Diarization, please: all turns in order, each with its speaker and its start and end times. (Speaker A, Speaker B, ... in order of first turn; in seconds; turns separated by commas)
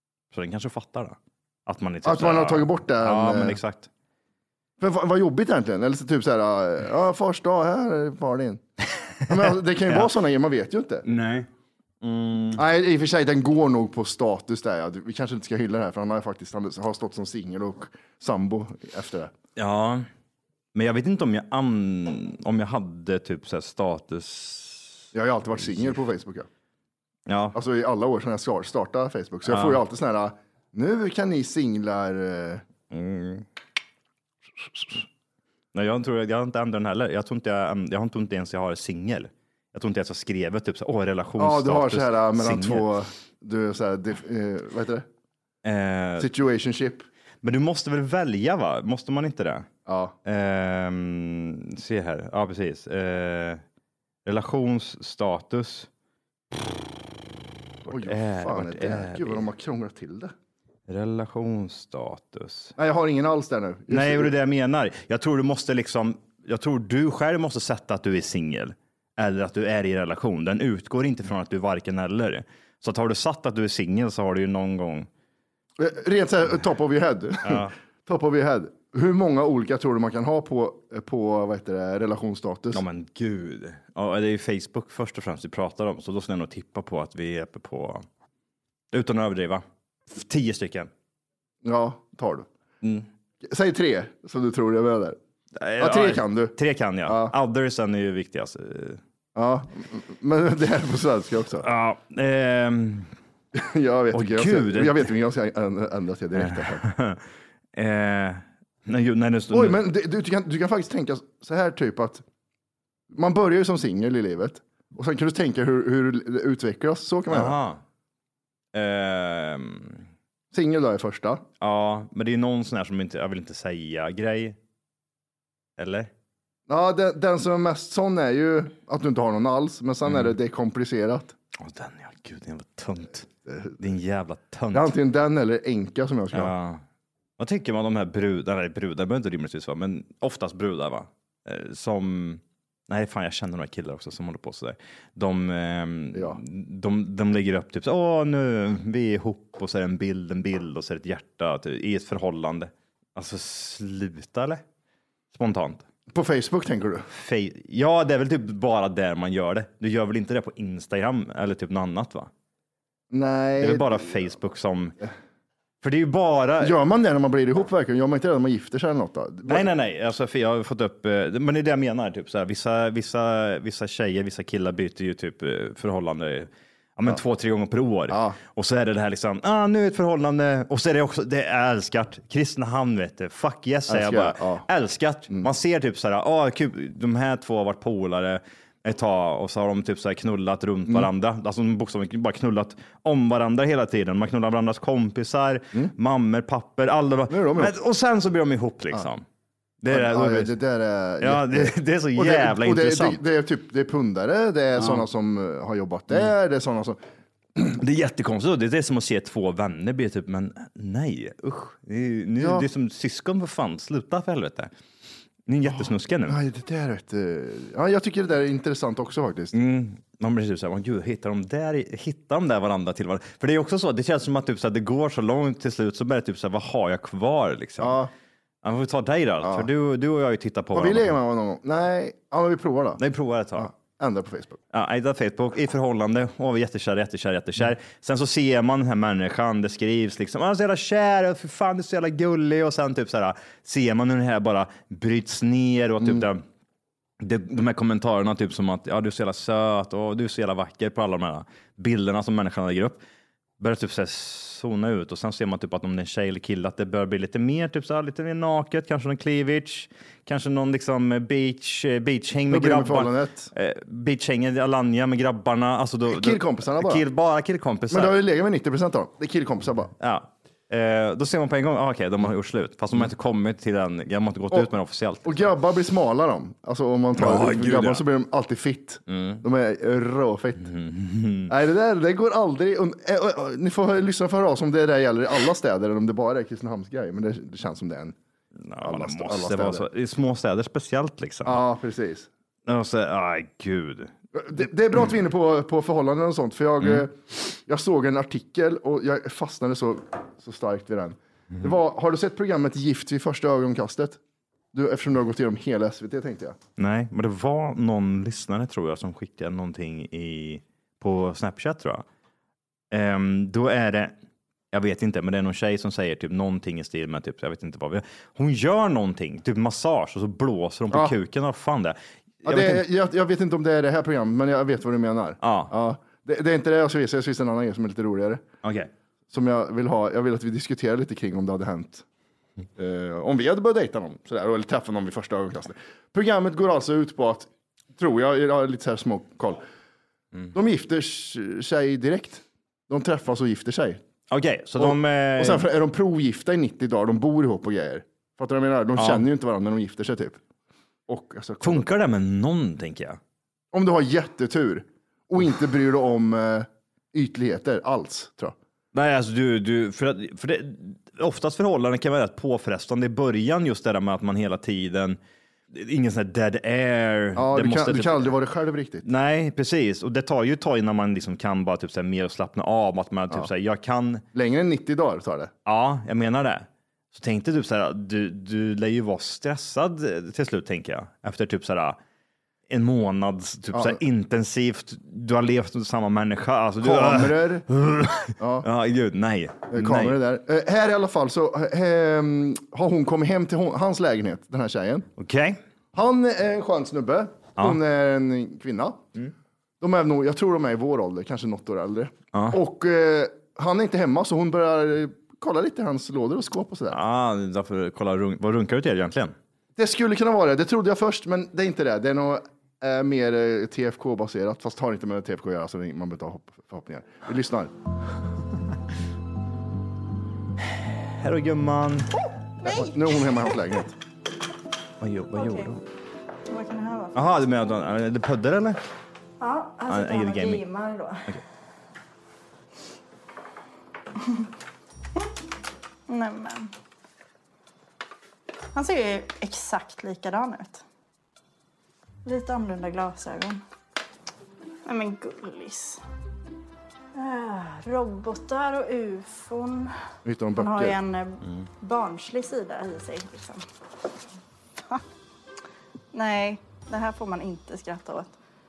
Speaker A: 0.3-3.9, Speaker B: 2.0-3.6, Speaker B: 4.8-8.6, Speaker A: 9.2-10.1, Speaker B: 9.3-11.0, Speaker A: 11.1-11.5, Speaker A: 12.0-12.6, Speaker B: 12.5-19.3, Speaker A: 19.6-20.1, Speaker A: 20.7-25.0, Speaker B: 25.1-26.5, Speaker A: 27.3-27.6, Speaker B: 27.5-32.6, Speaker A: 29.5-29.8, Speaker A: 32.9-33.4, Speaker A: 35.7-42.9, Speaker B: 41.4-45.0, Speaker A: 45.6-46.3, Speaker B: 46.2-47.1, Speaker A: 47.4-49.7, Speaker B: 49.9-50.1, Speaker A: 50.2-53.6, Speaker A: 54.2-55.9, Speaker A: 57.8-59.4, Speaker B: 57.9-60.3, Speaker A: 60.9-62.7, Speaker B: 62.8-64.3, Speaker A: 63.9-75.1, Speaker B: 75.8-82.8, Speaker A: 77.4-77.7, Speaker A: 82.7-88.0, Speaker A: 88.9-90.9, Speaker B: 91.6-92.5, Speaker A: 92.8-93.1, Speaker B: 93.4-95.2, Speaker A: 95.6-99.0, Speaker B: 95.8-96.5, Speaker B: 97.0-97.3, Speaker B: 99.3-101.7, Speaker A: 101.6-103.1, Speaker B: 103.5-106.8, Speaker A: 104.1-105.0, Speaker A: 106.3-107.2, Speaker A: 107.8-109.8, Speaker B: 109.5-112.2, Speaker B: 113.1-117.5, Speaker A: 117.3-117.8, Speaker A: 118.7-120.0, Speaker B: 120.5-121.4, Speaker A: 121.6-124.5, Speaker A: 125.8-126.1, Speaker B: 126.7-131.3, Speaker A: 130.1-130.3, Speaker A: 131.6-133.3, Speaker B: 133.5-133.7, Speaker A: 133.8-134.9, Speaker B: 134.7-136.5, Speaker A: 136.3-136.8, Speaker A: 137.4-154.6, Speaker B: 146.1-146.4, Speaker A: 155.3-155.8, Speaker B: 156.1-157.1, Speaker A: 157.1-162.3, Speaker B: 163.1-164.2, Speaker A: 163.6-164.9, Speaker A: 165.8-166.8, Speaker B: 166.6-169.7, Speaker A: 169.4-199.2, Speaker B: 178.1-178.4, Speaker B: 183.9-184.6, Speaker B: 197.3-197.7, Speaker A: 199.8-200.5, Speaker B: 199.9-207.0, Speaker A: 201.2-203.2, Speaker A: 204.8-205.0, Speaker A: 207.7-214.7, Speaker B: 212.4-212.7, Speaker A: 215.5-216.4, Speaker B: 215.6-219.6, Speaker A: 219.5-228.0, Speaker B: 227.8-228.1, Speaker A: 228.6-231.1, Speaker B: 229.4-229.7, Speaker B: 230.7-233.0, Speaker A: 233.0-233.7, Speaker B: 233.6-234.6, Speaker A: 234.7-246.4, Speaker B: 246.0-246.2, Speaker A: 247.2-253.0, Speaker A: 253.6-268.1, Speaker B: 262.5-263.5, Speaker B: 266.1-267.0, Speaker B: 267.9-269.9, Speaker A: 270.0-275.4, Speaker B: 275.2-280.7, Speaker A: 277.1-278.0, Speaker A: 279.1-279.4, Speaker A: 280.6-281.5, Speaker B: 281.5-288.1, Speaker A: 288.6-291.6, Speaker B: 288.8-289.8, Speaker B: 291.4-292.3, Speaker A: 292.7-294.1, Speaker B: 294.3-304.2, Speaker B: 304.7-306.6, Speaker A: 306.8-312.0, Speaker A: 312.9-314.1, Speaker A: 314.7-322.8, Speaker B: 322.4-328.4, Speaker A: 325.4-325.7, Speaker A: 328.6-328.9, Speaker B: 329.3-332.0, Speaker B: 332.8-339.6, Speaker B: 340.5-344.0, Speaker A: 344.3-345.7, Speaker B: 344.8-350.4, Speaker A: 348.9-349.2, Speaker B: 351.1-351.9, Speaker A: 351.6-353.2, Speaker B: 353.7-358.6, Speaker A: 358.9-365.2, Speaker A: 365.7-368.3, Speaker B: 367.3-369.1, Speaker A: 369.0-374.2, Speaker B: 374.3-375.5, Speaker A: 375.6-382.0, Speaker A: 382.7-390.2, Speaker B: 383.7-384.0, Speaker B: 386.8-387.6, Speaker B: 388.4-388.7, Speaker B: 389.7-395.1, Speaker A: 395.2-395.6, Speaker B: 395.9-399.0, Speaker B: 399.8-407.0, Speaker A: 402.3-402.6, Speaker A: 406.9-409.3, Speaker B: 409.8-417.7, Speaker A: 420.7-422.1, Speaker B: 422.6-423.9, Speaker A: 425.0-425.8, Speaker C: 425.3-425.7, Speaker C: 426.5-427.4, Speaker A: 427.1-428.8, Speaker C: 429.4-431.3, Speaker A: 429.9-430.6, Speaker C: 436.1-436.7, Speaker C: 438.7-440.8, Speaker C: 442.2-443.6, Speaker C: 444.8-446.0, Speaker C: 447.1-449.9, Speaker B: 450.2-451.0, Speaker C: 450.6-453.6, Speaker C: 456.1-458.4